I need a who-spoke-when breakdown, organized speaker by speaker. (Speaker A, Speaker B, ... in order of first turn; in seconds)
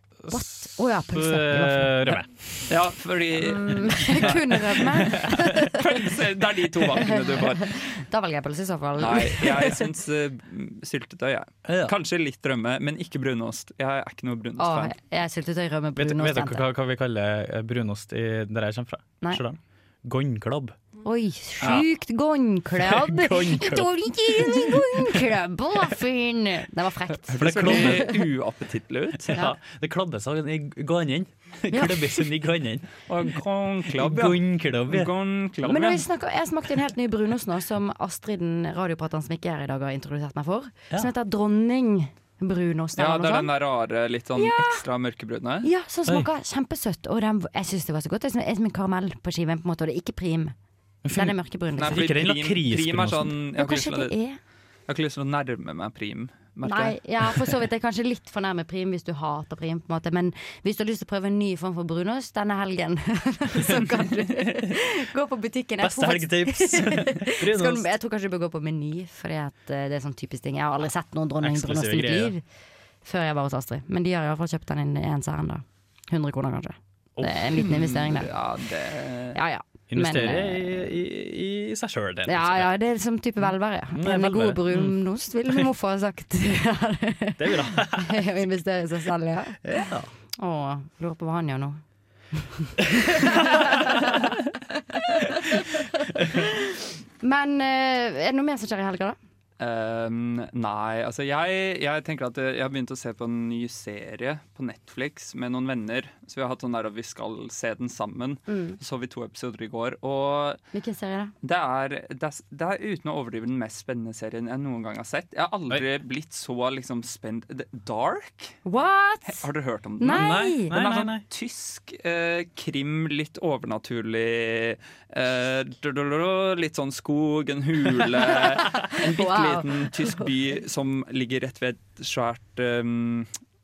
Speaker A: 0.2-2.7, 11.7-11.9, 16.0-20.8, 21.6-21.9, 22.8-25.2, 27.4-28.1, 29.3-32.9, 33.9-35.1, 51.0-53.4, 65.8-67.9, 71.4-72.3, 77.2-77.8, 79.9-82.7, 83.9-85.0, 87.4-88.3, 89.6-90.1, 120.1-121.2
Speaker B: 0.3-2.1, 3.4-5.9, 6.8-9.8, 14.6-16.6, 21.0-28.2, 31.7-32.0, 35.6-43.5, 44.4-44.8, 45.6-50.5, 51.1-52.0, 53.6-54.4, 56.6-72.4, 73.0-78.3, 79.3-80.7, 82.3-89.9, 90.4-91.8, 92.3-94.2, 94.9-95.8, 97.2-99.2, 108.5-108.8, 110.7-111.3, 118.7-119.5, 120.0-120.7, 128.3-130.3
Speaker C: 2.7-7.7, 9.0-14.9, 27.3-29.4, 33.1-36.0, 43.0-45.7, 51.8-54.1, 54.9-57.6, 64.4-64.7, 77.6-79.4, 99.6-110.6, 111.4-118.6, 119.3-133.3